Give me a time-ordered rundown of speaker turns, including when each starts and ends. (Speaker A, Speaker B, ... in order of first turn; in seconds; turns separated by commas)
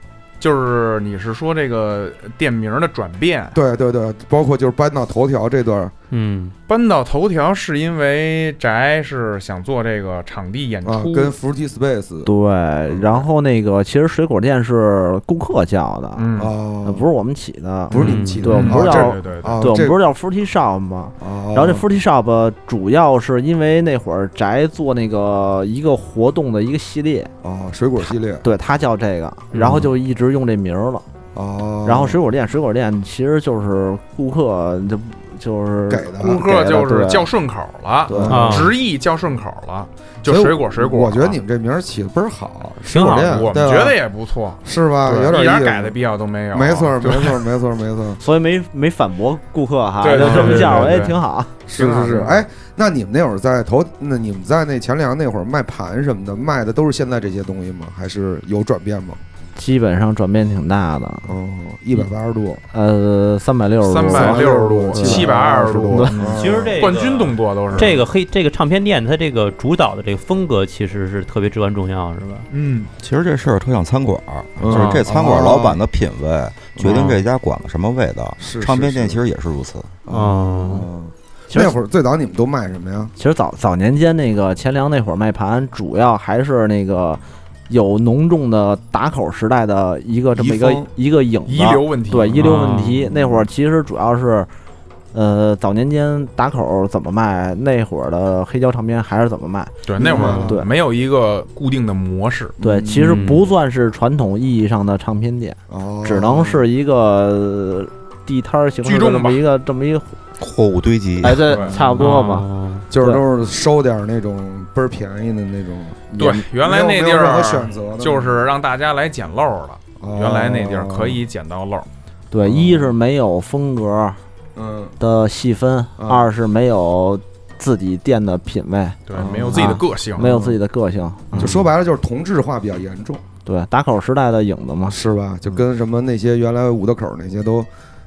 Speaker A: 0.4-3.6, Speaker B: 3.5-5.9, Speaker C: 6.1-6.5, Speaker A: 6.7-11.3, Speaker B: 10.8-12.3, Speaker D: 12.3-16.2, Speaker A: 16.2-16.5, Speaker B: 16.4-17.1, Speaker D: 16.8-27.3, Speaker B: 17.9-20.0, Speaker C: 18.0-18.7, Speaker A: 18.5-19.6, Speaker B: 21.2-21.9, Speaker B: 27.4-28.4, Speaker D: 28.4-31.1, Speaker C: 29.6-29.9, Speaker B: 31.4-32.2, Speaker D: 31.9-37.3, Speaker B: 35.9-36.4, Speaker A: 36.2-41.4, Speaker D: 38.1-38.6, Speaker B: 38.1-38.6, Speaker C: 38.3-38.7, Speaker B: 40.2-44.0, Speaker C: 42.9-43.5, Speaker A: 43.0-47.5, Speaker B: 44.6-45.9, Speaker B: 46.5-48.2, Speaker D: 48.2-52.4, Speaker A: 50.0-51.2, Speaker B: 50.2-51.0, Speaker B: 51.7-59.2, Speaker D: 59.6-61.4, Speaker B: 61.3-62.6, Speaker D: 62.7-66.4, Speaker A: 63.9-68.0, Speaker B: 64.0-66.9, Speaker C: 66.2-72.5, Speaker B: 67.7-68.0, Speaker A: 72.5-72.9, Speaker E: 73.0-79.9, Speaker B: 74.6-75.8, Speaker C: 74.7-75.1, Speaker B: 76.8-77.2, Speaker B: 78.4-79.2, Speaker B: 80.1-83.1, Speaker C: 80.1-80.9, Speaker D: 83.2-94.5, Speaker B: 90.3-90.9, Speaker A: 91.5-92.4, Speaker C: 92.4-93.1, Speaker B: 93.1-93.5, Speaker D: 95.1-100.7, Speaker A: 99.8-102.6, Speaker B: 100.0-100.5, Speaker B: 102.6-103.2, Speaker D: 102.6-110.2, Speaker C: 102.9-103.5, Speaker B: 105.7-106.7, Speaker A: 108.8-109.4, Speaker E: 110.4-111.5, Speaker D: 111.2-113.2, Speaker A: 111.5-111.8, Speaker C: 111.9-112.9, Speaker B: 112.9-118.4, Speaker D: 116.1-116.5, Speaker A: 116.2-121.9, Speaker B: 120.0-121.2, Speaker D: 122.3-124.2, Speaker B: 122.4-122.9, Speaker B: 124.6-125.0, Speaker D: 125.0-131.6, Speaker B: 126.0-126.3, Speaker A: 129.1-130.3, Speaker B: 129.2-130.6, Speaker B: 131.4-133.2, Speaker D: 133.5-135.0, Speaker B: 134.9-137.7